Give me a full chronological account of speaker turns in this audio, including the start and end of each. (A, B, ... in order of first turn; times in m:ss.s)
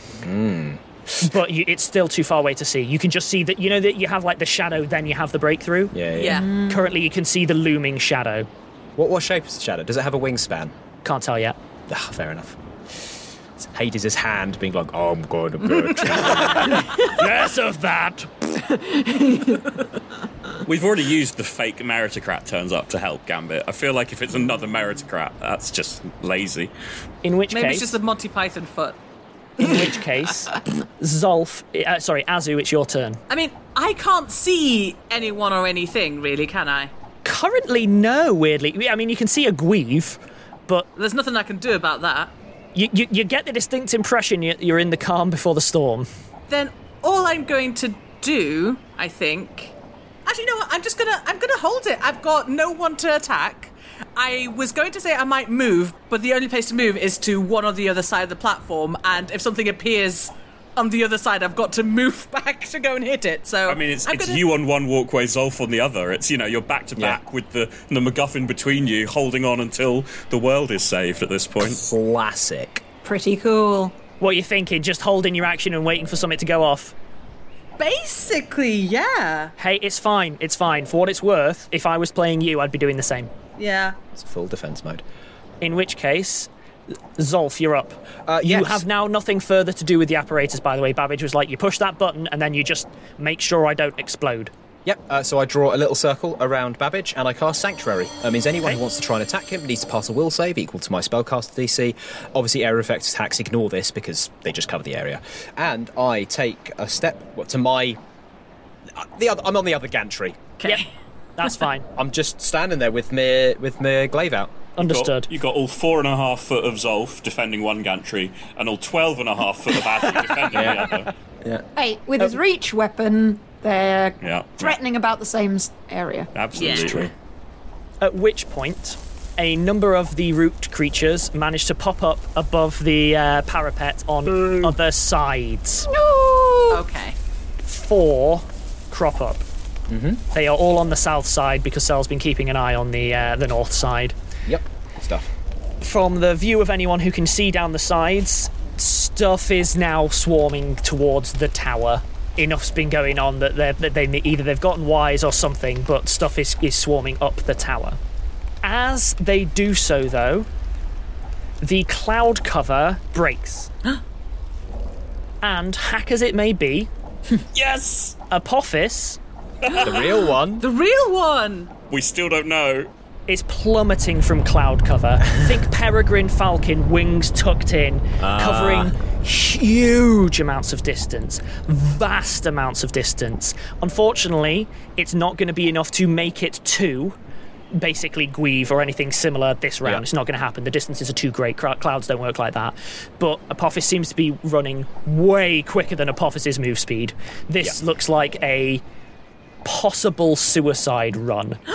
0:00.2-0:01.3 A
0:01.2-0:05.9 B
0:05.9-0:06.4 A
0:06.1-0:06.5 C
0:06.3-0:06.9 D
0:06.5-0:08.5 B
0:09.0-0:10.7 A
0:11.0-0:11.6 B
0:11.9-0:12.6 A
0:13.6-0:16.8 A
0:16.2-0:19.0 B
0:19.2-0:19.5 D
0:20.6-0:26.7 E
0:27.2-0:28.0 B
0:27.5-0:29.0 C
0:29.6-0:33.2 B
0:33.3-0:36.9 C
0:37.2-0:40.9 B
0:41.0-0:42.3 C
0:42.7-0:46.1 B
0:46.5-0:49.7 C
0:50.2-1:04.4 C
1:03.6-1:11.8 E
1:11.6-1:12.8 A
1:13.0-1:14.0 D
1:14.2-1:16.9 B
1:17.8-1:19.5 C
1:19.6-1:23.3 B
1:23.6-1:24.0 C
1:24.1-1:25.0 A
1:25.6-1:26.5 B
1:27.2-1:34.5 B
1:28.2-1:28.8 A
1:34.8-1:48.0 A
1:48.9-1:50.4 A
1:50.6-1:50.8 C
1:51.4-1:51.9 B
1:52.0-1:54.6 A
1:54.8-1:55.3 B
1:54.8-2:01.1 E
2:00.5-2:01.6 A
2:01.7-2:06.3 D
2:04.2-2:04.8 E
2:06.3-2:07.1 E
2:06.5-2:07.0 C
2:06.7-2:07.1 A
2:08.0-2:15.9 B
2:14.4-2:14.7 A
2:15.9-2:16.8 D
2:16.7-2:17.2 C
2:17.6-2:19.4 B
2:19.9-2:20.2 A
2:20.3-2:24.1 B
2:24.4-2:25.3 A
2:25.8-2:38.0 B
2:38.6-2:40.5 B
2:41.6-2:43.7 B
2:45.4-2:46.9 B
2:47.5-2:48.2 E
2:48.3-2:49.2 B
2:49.6-2:49.9 E
2:49.7-2:51.7 C
2:49.8-2:50.6 A
2:51.9-2:52.9 E
2:53.3-3:07.2 B
2:58.2-2:58.9 A
3:07.8-3:18.8 B
3:19.6-3:21.6 B